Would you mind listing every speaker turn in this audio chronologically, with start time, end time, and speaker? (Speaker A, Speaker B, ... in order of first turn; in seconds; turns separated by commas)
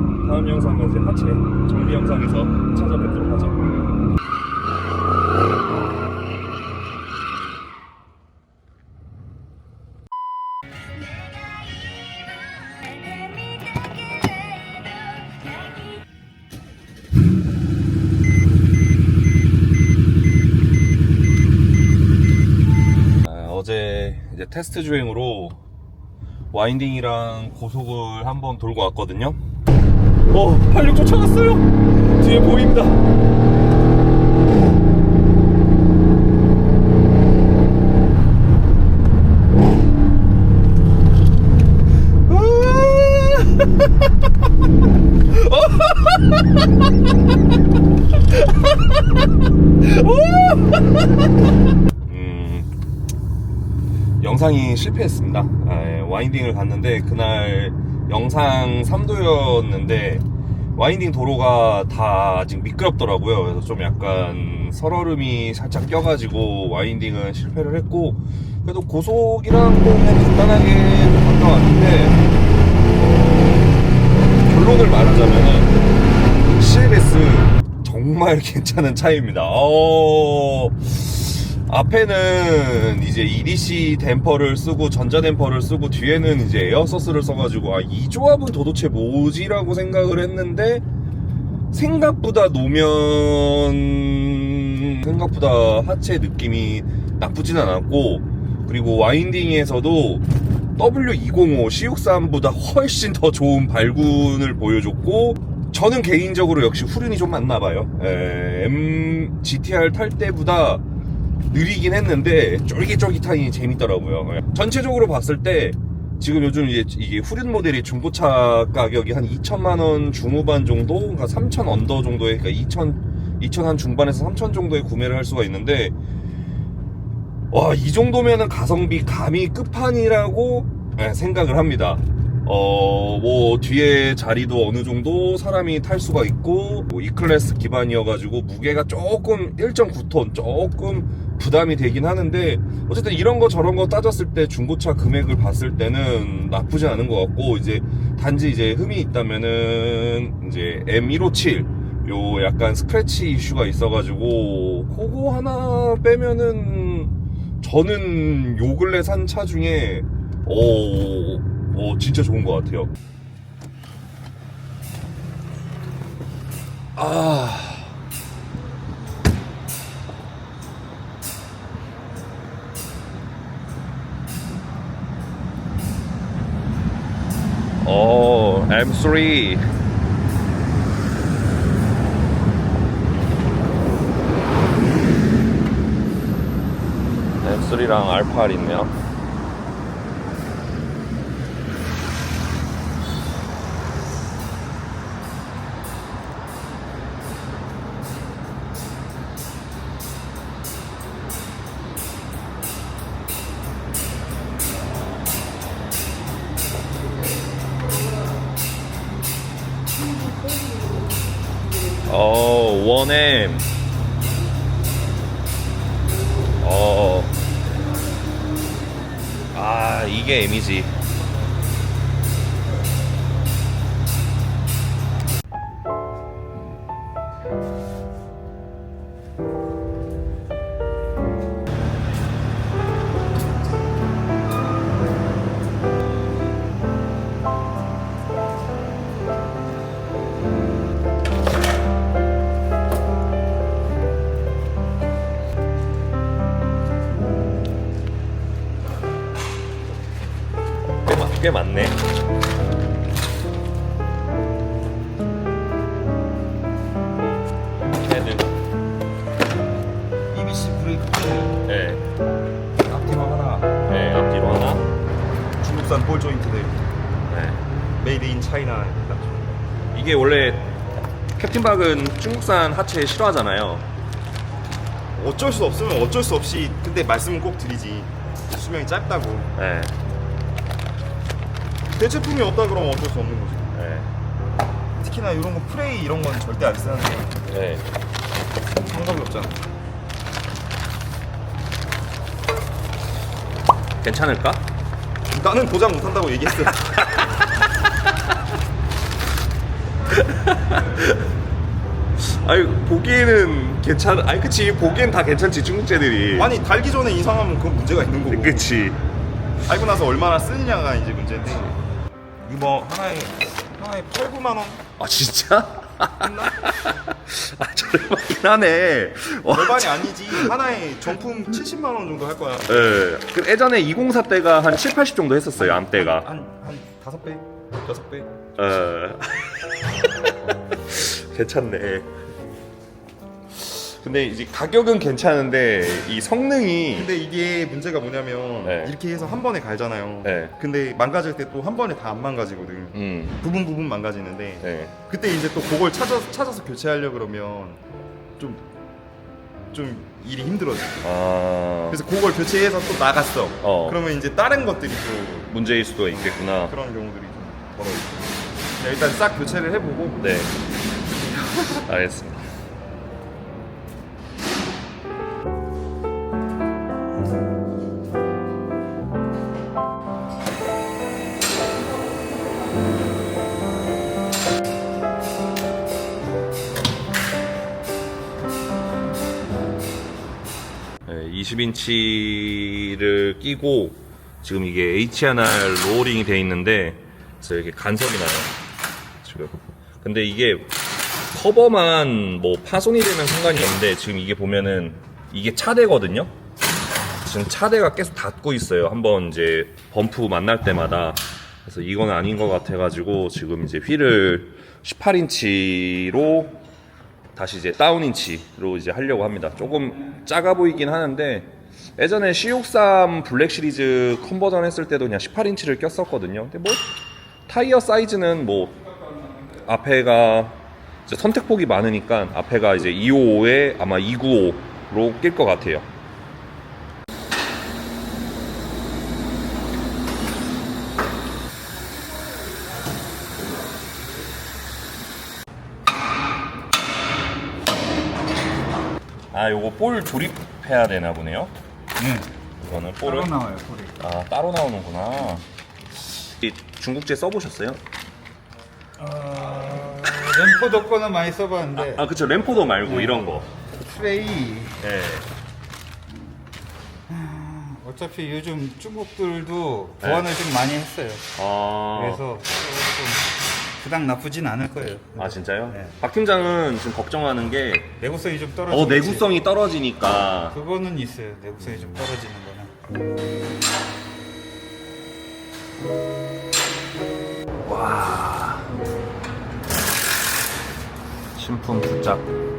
Speaker A: 0.2-3.7, Speaker A: 23.2-25.6, Speaker A: 26.5-29.4, Speaker A: 30.3-33.0, Speaker A: 42.3-43.9, Speaker A: 45.3-46.6, Speaker A: 48.3-48.8, Speaker A: 49.8-51.1, Speaker A: 52.0-52.7, Speaker A: 54.2-72.2, Speaker A: 72.9-73.8, Speaker A: 74.3-75.7, Speaker A: 76.5-90.8, Speaker A: 91.7-100.2, Speaker A: 100.8-110.8, Speaker A: 111.5-125.9, Speaker A: 127.5-162.9, Speaker A: 166.9-167.9, Speaker A: 177.8-179.7, Speaker A: 187.4-188.9, Speaker A: 212.0-213.7, Speaker A: 216.6-217.4, Speaker A: 219.5-220.9, Speaker A: 251.0-252.0, Speaker A: 258.0-258.5, Speaker B: 260.3-261.6, Speaker A: 261.6-262.0, Speaker B: 262.8-263.7, Speaker A: 263.9-264.9, Speaker B: 265.6-267.0, Speaker A: 267.3-267.6, Speaker B: 268.0-269.6, Speaker A: 269.9-270.7, Speaker A: 271.4-273.9, Speaker B: 275.1-279.5, Speaker A: 279.5-279.9, Speaker B: 281.9-283.8, Speaker A: 283.7-284.1, Speaker B: 285.0-287.4, Speaker A: 287.5-287.9, Speaker B: 288.7-289.6, Speaker A: 294.0-294.7, Speaker B: 295.3-297.1, Speaker A: 300.1-301.3, Speaker A: 302.1-306.5, Speaker B: 306.3-308.8, Speaker A: 308.3-309.0, Speaker B: 309.6-311.8, Speaker B: 312.4-314.8, Speaker A: 315.0-320.5, Speaker B: 316.2-316.6, Speaker B: 319.5-323.0, Speaker A: 322.7-326.3, Speaker B: 325.6-328.3, Speaker A: 328.5-329.7, Speaker A: 330.9-332.1, Speaker A: 333.5-337.1, Speaker B: 336.9-347.8, Speaker A: 338.6-339.0, Speaker A: 340.2-340.6, Speaker A: 342.9-343.4, Speaker A: 344.6-344.9, Speaker B: 348.4-348.7, Speaker B: 349.7-351.1, Speaker A: 351.0-352.0, Speaker B: 351.9-355.5, Speaker A: 353.6-354.0, Speaker A: 355.5-356.7, Speaker B: 356.6-358.2, Speaker B: 358.8-360.2, Speaker A: 360.2-360.5, Speaker A: 361.7-362.5, Speaker A: 381.1-388.5, Speaker A: 389.2-390.7, Speaker A: 391.3-396.3, Speaker A: 397.2-406.6, Speaker A: 407.3-416.9, Speaker A: 417.5-418.9, Speaker A: 419.5-425.9, Speaker A: 439.3-441.5, Speaker C: 442.0-442.3, Speaker A: 442.6-443.3, Speaker C: 443.0-444.0, Speaker A: 444.0-445.4, Speaker A: 446.4-447.8, Speaker C: 449.0-452.1, Speaker A: 451.7-453.5, Speaker C: 453.9-454.8, Speaker A: 454.8-455.3, Speaker C: 457.1-461.2, Speaker A: 460.0-460.3, Speaker A: 461.4-462.2, Speaker C: 461.9-465.9, Speaker A: 465.1-467.9, Speaker C: 468.0-469.3, Speaker A: 468.7-470.6, Speaker C: 470.5-472.7, Speaker A: 477.6-478.8, Speaker A: 481.3-482.3